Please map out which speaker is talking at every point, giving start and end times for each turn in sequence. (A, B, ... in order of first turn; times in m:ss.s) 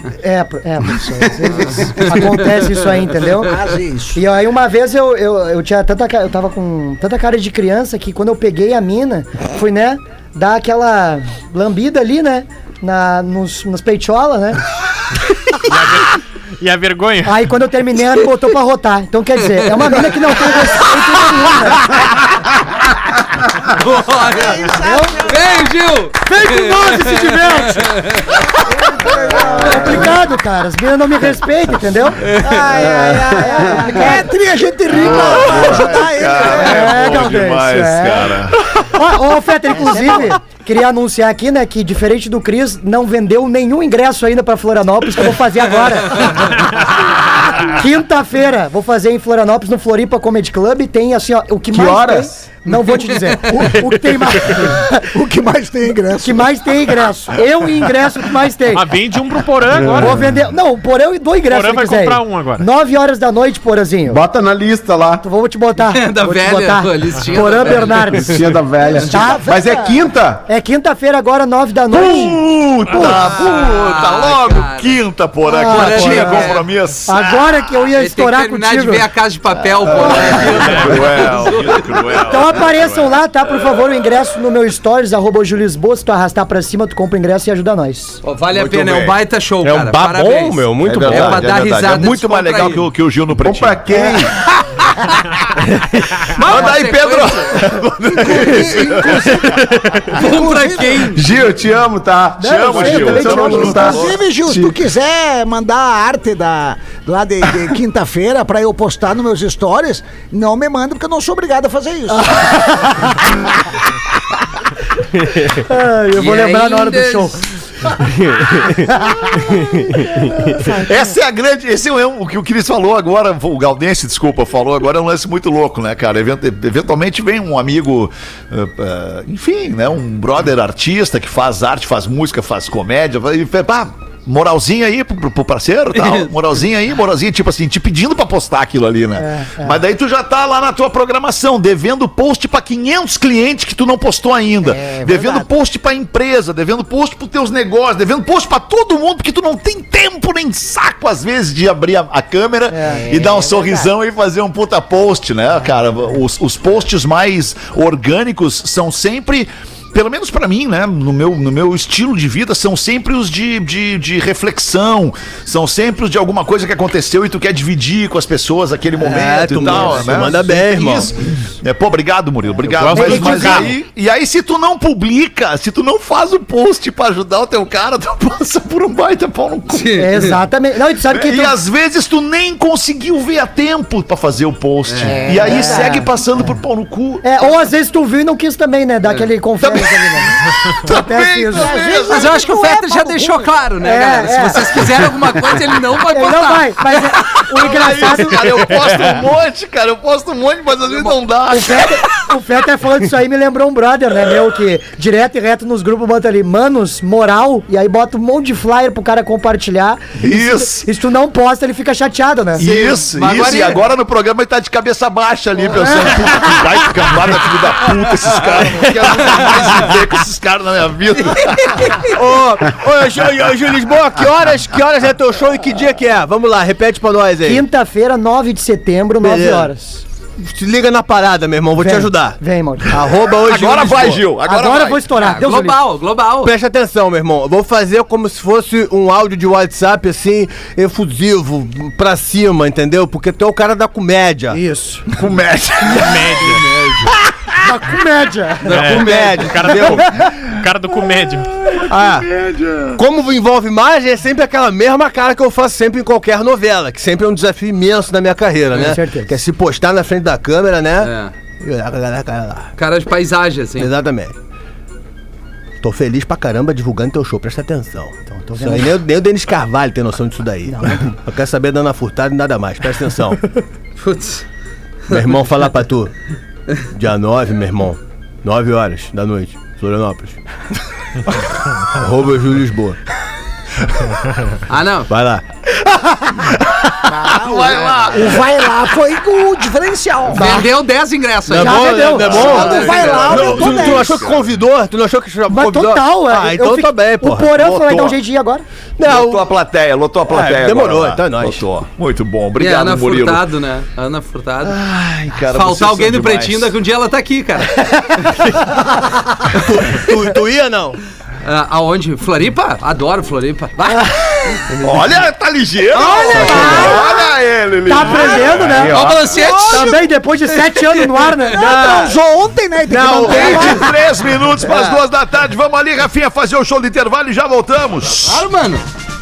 0:00.1-0:14.6 A
0:03.2-0:04.2 B
0:15.6-0:17.5 C
0:17.2-0:22.1 A
0:23.6-0:24.7 D
0:24.0-0:25.5 B
0:24.8-0:25.2 A
0:25.2-0:28.3 D
0:26.2-0:28.2 A
0:28.6-0:30.2 B
0:29.2-0:34.3 A
0:32.3-0:37.1 B
0:34.9-0:38.7 E
0:35.1-0:55.1 A
0:39.7-0:40.4 B
0:51.7-0:52.4 F
0:52.7-0:53.1 D
0:53.5-0:56.8 B
0:56.2-0:58.9 A
0:58.7-1:00.4 C
0:59.7-1:00.3 F
0:59.8-1:04.2 A
1:01.5-1:02.7 C
1:04.1-1:05.2 F
1:05.2-1:09.6 A
1:05.9-1:08.3 D
1:08.2-1:10.4 F
1:08.8-1:10.1 B
1:10.4-1:13.4 A
1:11.9-1:17.5 E
1:13.0-1:15.0 D
1:15.5-1:19.0 A
1:15.6-1:16.6 D
1:17.9-1:22.2 D
1:19.6-1:23.6 E
1:19.9-1:21.0 A
1:22.2-1:28.2 A
1:28.2-1:32.8 D
1:28.6-1:29.0 E
1:29.6-1:31.6 G
1:30.8-1:34.0 E
1:33.4-1:34.3 F
1:36.3-1:39.7 E
1:36.4-1:37.6 D
1:38.0-1:41.2 B
1:40.1-1:41.2 D
1:41.1-1:44.8 F
1:42.4-1:44.1 E
1:42.4-1:44.1 A
1:42.9-1:52.3 B
1:52.1-1:53.2 A
1:55.5-1:57.4 A
1:56.1-1:57.4 D
1:58.7-2:01.1 A
2:00.7-2:59.9 E
2:15.9-2:16.3 D
2:19.2-2:19.8 A
2:24.6-2:25.5 B
2:32.7-2:33.2 A
2:32.8-2:33.9 B
2:49.0-2:51.1 G
2:52.7-2:53.8 C
2:52.9-2:53.7 A
2:59.7-3:00.4 D
2:59.9-3:01.6 A
3:01.1-3:07.4 E
3:04.8-3:05.7 D
3:05.1-3:05.9 B
3:05.2-3:06.1 A
3:07.2-3:10.3 A
3:09.6-3:12.3 E
3:10.9-3:12.0 A
3:11.5-3:13.4 B
3:12.1-3:17.0 D
3:13.8-3:15.0 A
3:16.1-3:18.7 A
3:17.4-3:22.1 E
3:21.5-3:32.8 A
3:30.2-3:30.9 E
3:32.6-3:42.1 E
3:32.6-3:33.8 D
3:35.7-3:36.7 A
3:39.0-3:39.6 G
3:41.2-3:42.1 D
3:42.1-3:47.6 G
3:47.4-3:50.0 A
3:49.2-3:49.7 G
3:50.4-3:52.4 G
3:51.8-3:53.1 A
3:52.9-3:54.3 G
3:53.4-3:55.1 E
3:54.4-3:55.8 A
3:55.2-3:56.5 D
3:56.4-4:04.6 G
4:05.1-4:06.1 E
4:05.8-4:06.9 C
4:06.4-4:07.1 D
4:07.6-4:09.0 A
4:08.7-4:11.5 C
4:08.7-4:10.1 G
4:11.6-4:13.0 E
4:11.9-4:12.3 G
4:13.0-4:22.7 G
4:18.7-4:19.4 A
4:21.0-4:21.3 D
4:22.8-4:23.9 D
4:23.8-4:24.4 G
4:25.8-4:33.6 G
4:28.5-4:29.0 A
4:30.7-4:31.0 A
4:34.0-4:34.4 D
4:35.1-4:36.1 G
4:36.9-4:40.4 G
4:41.3-4:43.0 G
4:44.7-4:45.1 D
4:45.1-4:45.4 G
4:47.0-4:50.4 B
4:47.3-4:48.6 E
4:50.3-4:50.7 A
4:50.3-4:53.9 D
4:51.5-4:57.5 G
4:51.5-4:52.6 A
4:52.3-4:54.5 E
4:52.3-4:54.2 B
4:55.5-4:58.6 A
4:57.5-4:58.2 E
4:59.0-4:59.4 G
4:59.0-5:03.5 E
5:00.3-5:01.6 G
5:02.6-5:04.8 D
5:04.6-5:06.7 E
5:05.5-5:08.3 D
5:09.5-5:11.0 G
5:11.4-5:14.6 D
5:14.8-5:18.9 E
5:15.9-5:16.9 D
5:16.0-5:17.1 B
5:16.3-5:17.2 A
5:17.8-5:22.2 A
5:18.7-5:19.2 G
5:18.9-5:22.1 D
5:19.2-5:20.1 B
5:21.5-5:23.9 B
5:22.9-5:23.9 A
5:23.0-5:28.4 E
5:28.2-5:28.8 D